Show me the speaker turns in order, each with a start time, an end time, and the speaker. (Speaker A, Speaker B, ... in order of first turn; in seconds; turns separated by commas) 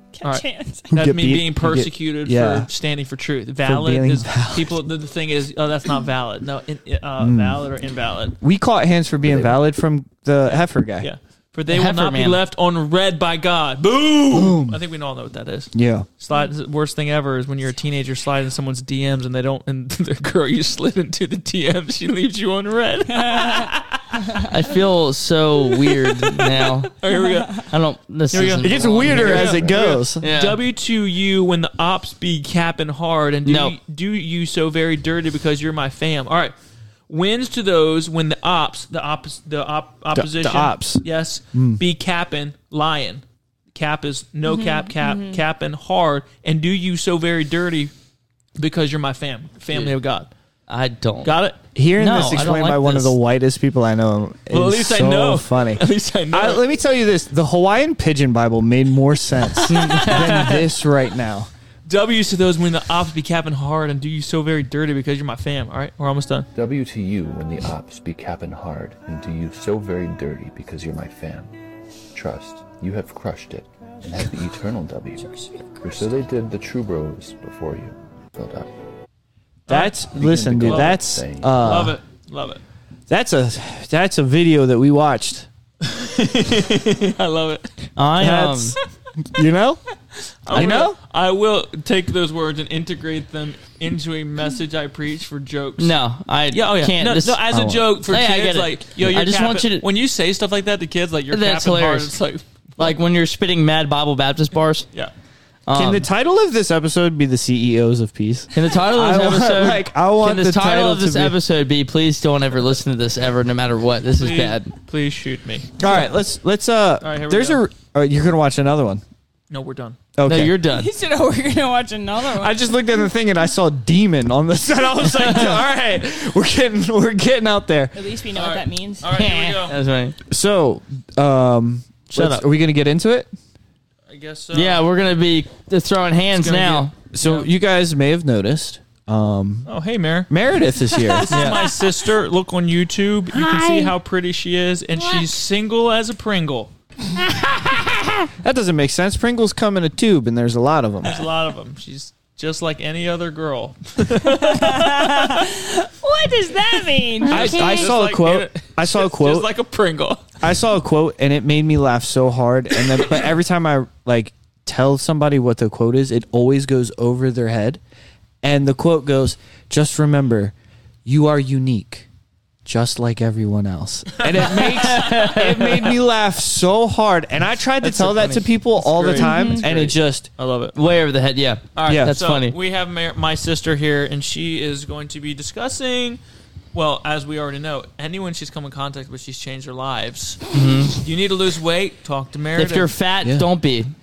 Speaker A: 0.1-0.9, Speaker B: 0.2-8.4, Speaker C: 0.9-2.7, Speaker C: 3.6-4.8, Speaker C: 7.2-7.7, Speaker C: 8.4-11.1, Speaker D: 9.2-9.6, Speaker B: 10.5-23.9, Speaker E: 11.7-12.4, Speaker C: 14.3-14.8, Speaker C: 15.7-16.1, Speaker A: 23.1-23.8, Speaker E: 24.4-26.9, Speaker B: 25.9-27.7, Speaker E: 27.7-29.6, Speaker B: 28.3-36.5, Speaker C: 28.6-30.2, Speaker E: 30.2-30.6, Speaker E: 33.5-33.8, Speaker B: 37.1-43.2, Speaker C: 40.1-41.8, Speaker B: 43.7-47.9, Speaker A: 44.5-45.4, Speaker B: 48.6-50.3, Speaker E: 49.7-50.0, Speaker E: 50.7-51.3, Speaker B: 51.2-51.6, Speaker C: 51.8-61.5, Speaker E: 52.0-53.2, Speaker B: 54.5-56.6, Speaker E: 59.7-60.7, Speaker B: 59.8-60.5, Speaker B: 61.9-66.5, Speaker D: 66.5-71.5, Speaker D: 72.1-78.7, Speaker B: 79.7-82.6, Speaker C: 79.7-82.0, Speaker D: 80.1-81.7, Speaker C: 83.1-85.5, Speaker B: 85.8-87.7, Speaker E: 88.0-88.8, Speaker C: 88.2-89.8, Speaker B: 90.5-96.0, Speaker C: 90.5-91.0, Speaker E: 95.8-99.9, Speaker B: 96.5-103.0, Speaker C: 97.5-97.9, Speaker E: 101.3-102.1, Speaker E: 102.8-104.9, Speaker E: 105.7-106.1, Speaker C: 105.7-111.4, Speaker E: 108.5-114.7, Speaker B: 114.2-116.0, Speaker C: 115.8-119.0, Speaker B: 117.0-117.6, Speaker B: 119.5-120.0, Speaker C: 120.2-120.6, Speaker E: 120.2-120.9, Speaker A: 120.7-122.7, Speaker C: 122.3-128.0, Speaker A: 127.9-129.2, Speaker B: 128.3-129.8, Speaker E: 129.1-130.2, Speaker C: 130.3-133.3, Speaker E: 132.1-132.5, Speaker B: 134.1-134.8, Speaker E: 134.5-137.0, Speaker B: 136.3-137.5, Speaker C: 137.1-139.7, Speaker B: 139.7-140.3, Speaker C: 140.3-141.4, Speaker B: 141.1-146.7, Speaker E: 141.3-141.7, Speaker A: 145.0-145.3, Speaker C: 148.4-151.3, Speaker B: 151.0-155.5, Speaker A: 154.3-157.9, Speaker B: 157.2-160.2, Speaker C: 157.3-159.5, Speaker C: 160.4-167.8, Speaker C: 168.4-170.5, Speaker C: 171.1-172.1, Speaker C: 172.7-180.3, Speaker B: 174.2-175.8, Speaker E: 174.7-175.8, Speaker E: 177.8-178.4, Speaker B: 177.9-180.8, Speaker A: 179.2-179.6, Speaker E: 180.8-182.6, Speaker B: 181.8-186.2, Speaker C: 181.9-182.2, Speaker B: 186.7-192.9, Speaker E: 190.5-191.0, Speaker E: 192.6-193.9